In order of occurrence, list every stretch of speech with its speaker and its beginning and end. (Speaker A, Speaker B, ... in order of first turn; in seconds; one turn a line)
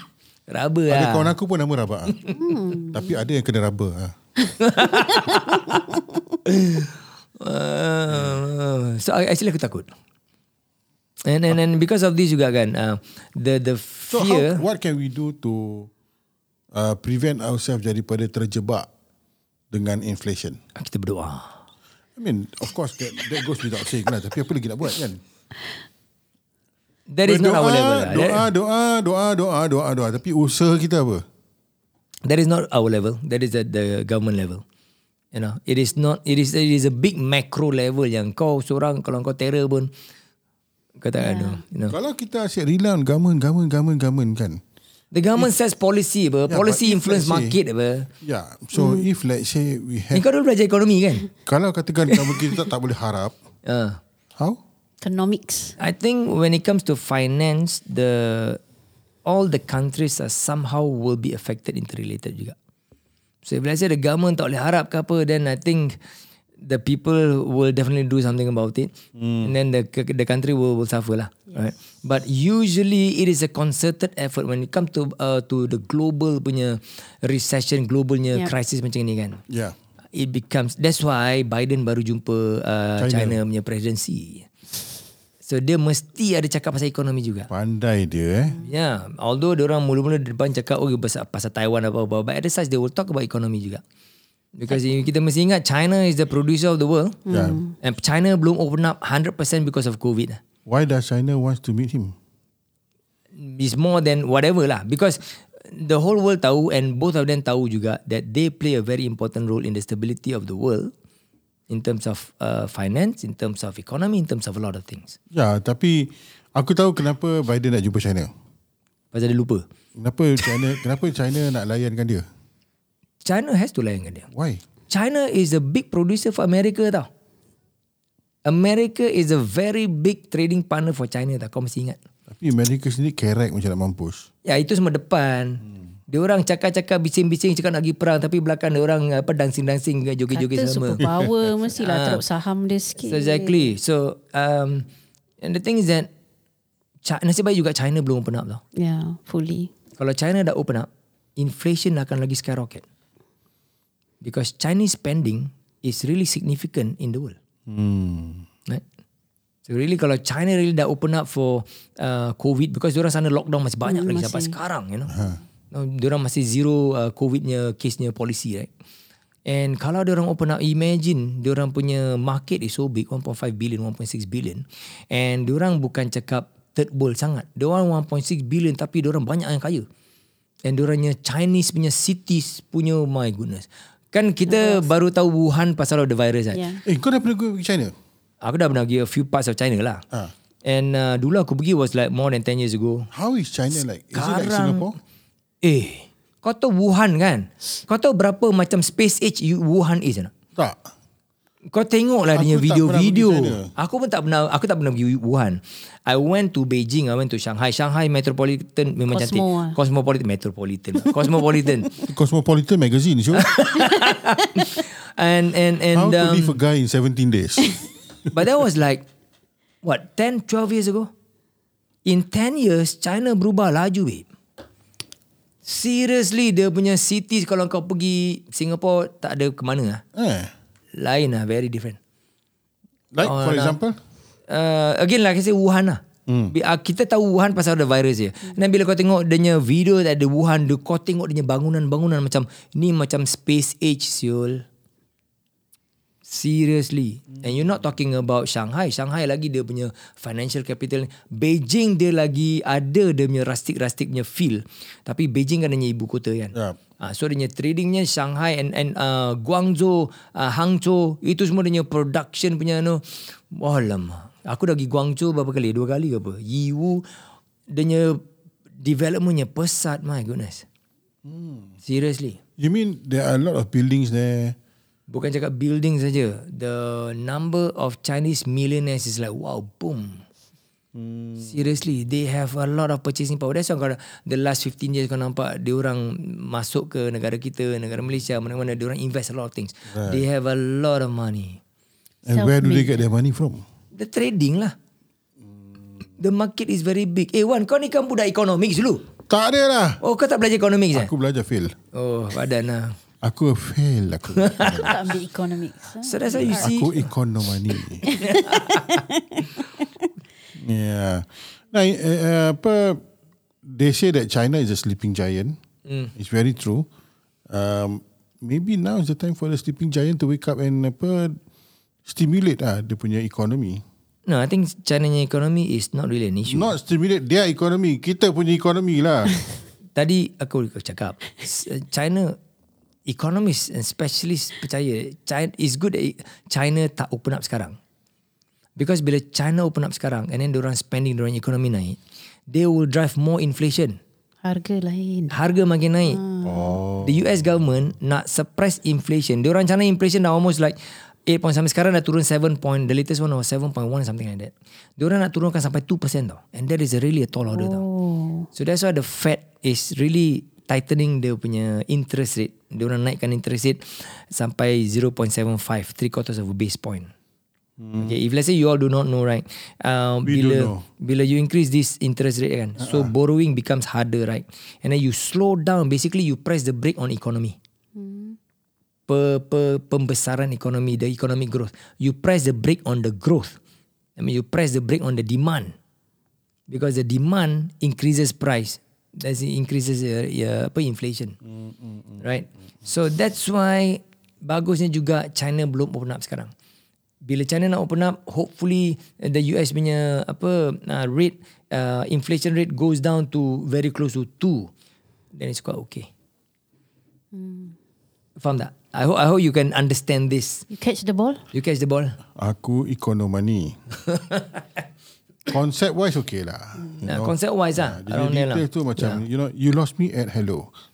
Speaker A: 0.5-1.3
Speaker B: 0.9-2.2
Speaker C: 2.3-3.2
Speaker B: 2.9-4.1
Speaker A: 4.6-9.9
Speaker C: 4.8-6.0
Speaker A: 11.2-14.6
Speaker B: 14.1-15.9
Speaker B: 16.7-18.9
Speaker B: 19.7-20.6
Speaker A: 20.7-21.5
Speaker B: 22.1-25.2
Speaker A: 27.1-28.5
Speaker B: 27.2-31.2
Speaker A: 32.2-34.6
Speaker A: 35.3-39.9
Speaker A: 41.0-41.9
Speaker C: 41.2-41.6
Speaker B: 41.9-44.6
Speaker A: 45.1-48.1
Speaker B: 46.5-47.6
Speaker B: 48.2-50.2
Speaker C: 48.7-49.0
Speaker A: 50.1-51.3
Speaker B: 51.5-53.3
Speaker A: 53.6-54.0
Speaker C: 55.0-55.8
Speaker A: 55.8-58.6
Speaker A: 59.2-62.5
Speaker A: 63.4-66.0
Speaker A: 66.6-79.4
Speaker B: 69.2-69.5
Speaker B: 79.5-79.8
Speaker A: 80.1-84.5
Speaker B: 83.0-83.4
Speaker A: 85.4-87.5
Speaker B: 87.5-88.6
Speaker A: 88.6-93.8
Speaker A: 94.5-97.2
Speaker C: 97.3-97.7
Speaker B: 97.3-97.6
Speaker A: 97.8-100.4
Speaker B: 100.7-102.1
Speaker A: 103.4-110.9
Speaker A: 111.7-115.2
Speaker B: 115.3-118.3
Speaker A: 119.1-119.6
Speaker B: 120.0-122.2
Speaker A: 123.2-124.3
Speaker B: 124.3-124.6
Speaker A: 124.9-127.1
Speaker A: 128.4-132.0
Speaker B: 132.3-134.3
Speaker A: 134.4-141.1
Speaker C: 140.3-143.7
Speaker B: 141.0-141.3
Speaker A: 141.8-142.2
Speaker A: 143.0-144.9
Speaker A: 145.4-146.1
Speaker A: 147.0-148.6
Speaker C: 148.7-149.7
Speaker A: 150.0-152.8
Speaker A: 154.2-157.3
Speaker B: 157.7-158.5
Speaker A: 159.7-165.1
Speaker C: 163.8-164.6
Speaker B: 165.1-165.4
Speaker A: 165.7-168.7
Speaker A: 169.4-179.8
Speaker A: 180.6-186.7
Speaker C: 184.5-184.9
Speaker C: 186.5-186.8
Speaker B: 186.8-187.9
Speaker A: 188.4-190.0
Speaker A: 190.6-193.1
Speaker B: 193.1-195.0
Speaker A: 194.1-194.9
Speaker A: 195.6-200.3
Speaker B: 200.6-200.8
Speaker A: 201.7-211.9
Speaker B: 202.3-203.7
Speaker C: 209.1-209.8
Speaker B: 212.0-213.6
Speaker A: 213.3-216.6
Speaker B: 215.9-217.8
Speaker A: 218.3-219.0
Speaker A: 219.8-221.1
Speaker A: 222.0-224.2
Speaker A: 225.6-230.0
Speaker B: 230.1-230.5
Speaker A: 231.0-232.0
Speaker B: 233.1-234.0
Speaker A: 233.2-233.8
Speaker A: 234.5-244.6
Speaker B: 236.3-236.5
Speaker A: 246.2-267.0
Speaker A: 267.7-268.2
Speaker A: 268.8-270.6
Speaker B: 271.2-271.7
Speaker A: 271.8-272.4
Speaker B: 272.6-274.6
Speaker A: 275.1-280.2
Speaker B: 280.9-281.6
Speaker A: 281.4-291.6
Speaker B: 289.9-290.2
Speaker B: 292.2-293.6
Speaker C: 292.3-293.0
Speaker A: 293.9-294.7
Speaker A: 296.2-299.1
Speaker B: 299.3-300.0
Speaker A: 300.0-301.1
Speaker B: 300.9-301.8
Speaker A: 301.9-302.9
Speaker B: 303.2-305.0
Speaker A: 304.4-304.9
Speaker C: 304.7-306.7
Speaker A: 306.0-307.1
Speaker B: 306.4-308.1
Speaker C: 308.0-309.6
Speaker A: 308.2-309.0
Speaker B: 310.5-313.0
Speaker B: 313.6-315.6
Speaker A: 315.9-316.1
Speaker B: 316.1-316.9
Speaker B: 317.5-321.4
Speaker B: 322.1-323.8
Speaker A: 324.3-326.7
Speaker B: 326.5-329.3
Speaker A: 329.9-332.4
Speaker A: 333.1-337.8
Speaker A: 338.8-342.0
Speaker A: 342.5-344.0
Speaker C: 344.4-345.4
Speaker A: 345.3-346.2
Speaker C: 346.0-346.8
Speaker B: 346.4-347.4
Speaker A: 347.0-357.8
Speaker C: 357.5-358.5
Speaker A: 358.5-367.1
Speaker B: 367.8-368.1
Speaker A: 368.0-377.6
Speaker B: 370.2-370.8
Speaker B: 372.8-373.1
Speaker C: 377.9-378.4
Speaker A: 379.1-383.6
Speaker A: 384.2-385.7
Speaker A: 386.7-391.4
Speaker B: 391.4-392.2
Speaker A: 392.2-396.5
Speaker A: 397.2-404.7
Speaker A: 405.3-406.1
Speaker C: 407.3-407.8
Speaker A: 408.4-410.6
Speaker C: 410.7-411.4
Speaker A: 411.5-412.2
Speaker B: 412.3-413.8
Speaker A: 414.1-414.6
Speaker B: 415.5-420.7
Speaker A: 417.0-419.2